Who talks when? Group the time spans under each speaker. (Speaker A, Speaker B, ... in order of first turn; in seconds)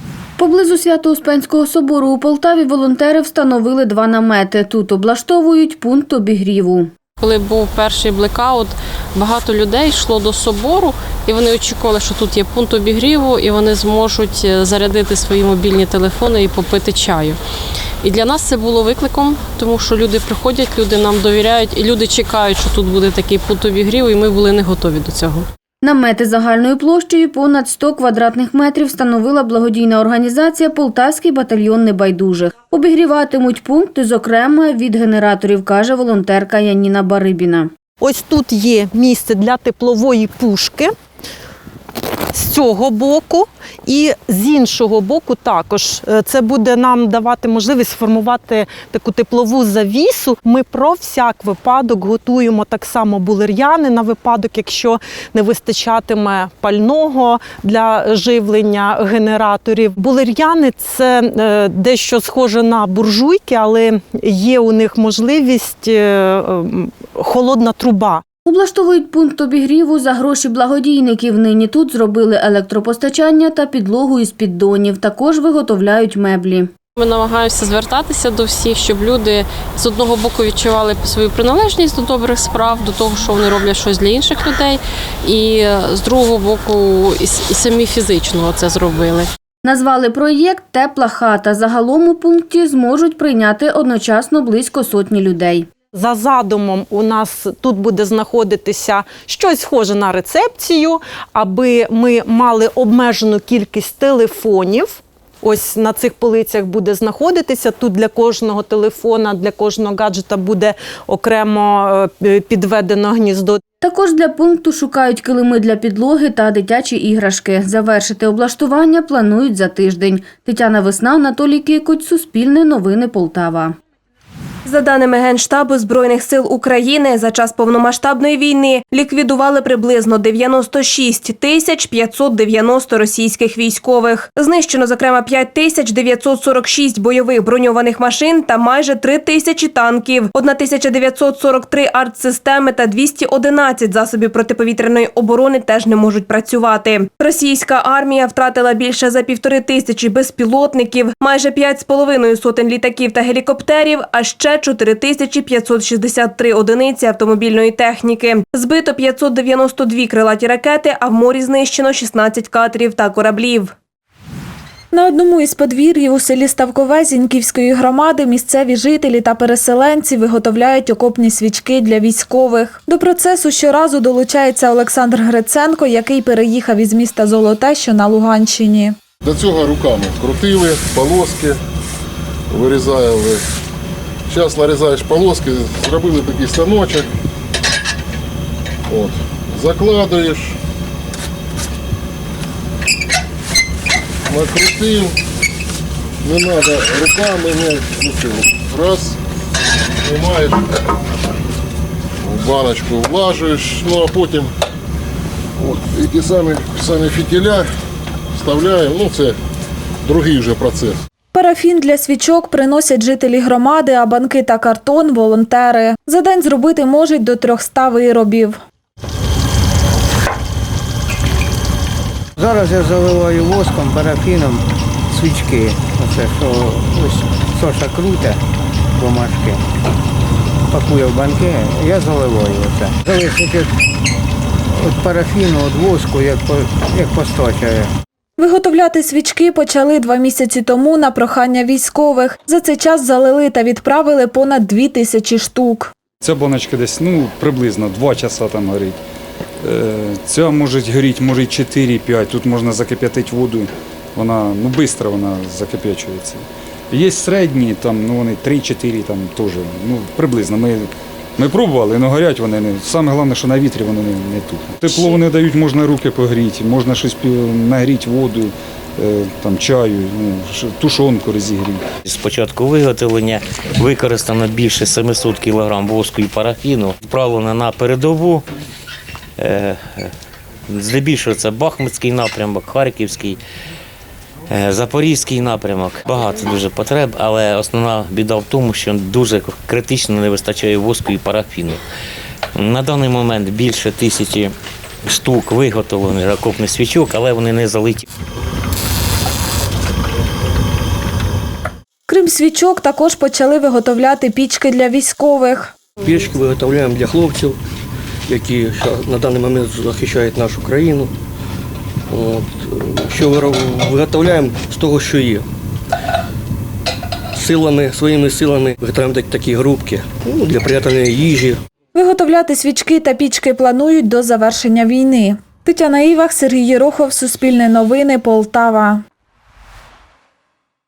Speaker A: 0.4-6.9, 25.8-37.7, 68.5-76.7, 89.6-95.7, 113.8-123.7
Speaker B: 7.2-17.4, 18.0-25.4, 77.0-89.3
Speaker C: 38.0-40.9, 42.3-68.2, 95.9-113.6
Speaker D: 124.7-163.7
Speaker E: 164.9-178.9, 211.3-218.6, 238.4-245.9, 302.1-305.7, 321.9-329.0
Speaker F: 179.2-181.6, 182.5-183.4, 184.3-187.1, 188.9-190.6, 194.3-195.1, 196.2-199.2, 200.0-200.6, 202.2-204.5, 205.6-207.7, 208.3-209.3, 210.0-211.0
Speaker G: 222.4-224.6, 225.1-228.4, 229.0-229.6, 230.7-233.7, 234.8-237.9
Speaker H: 246.2-249.0, 249.6-271.8
Speaker I: 272.0-278.4, 279.4-280.1, 280.7-283.4, 284.5-291.8, 292.6-294.5, 295.1-298.0
Speaker J: 306.0-307.6, 308.3-311.1, 312.1-315.4, 317.3-321.6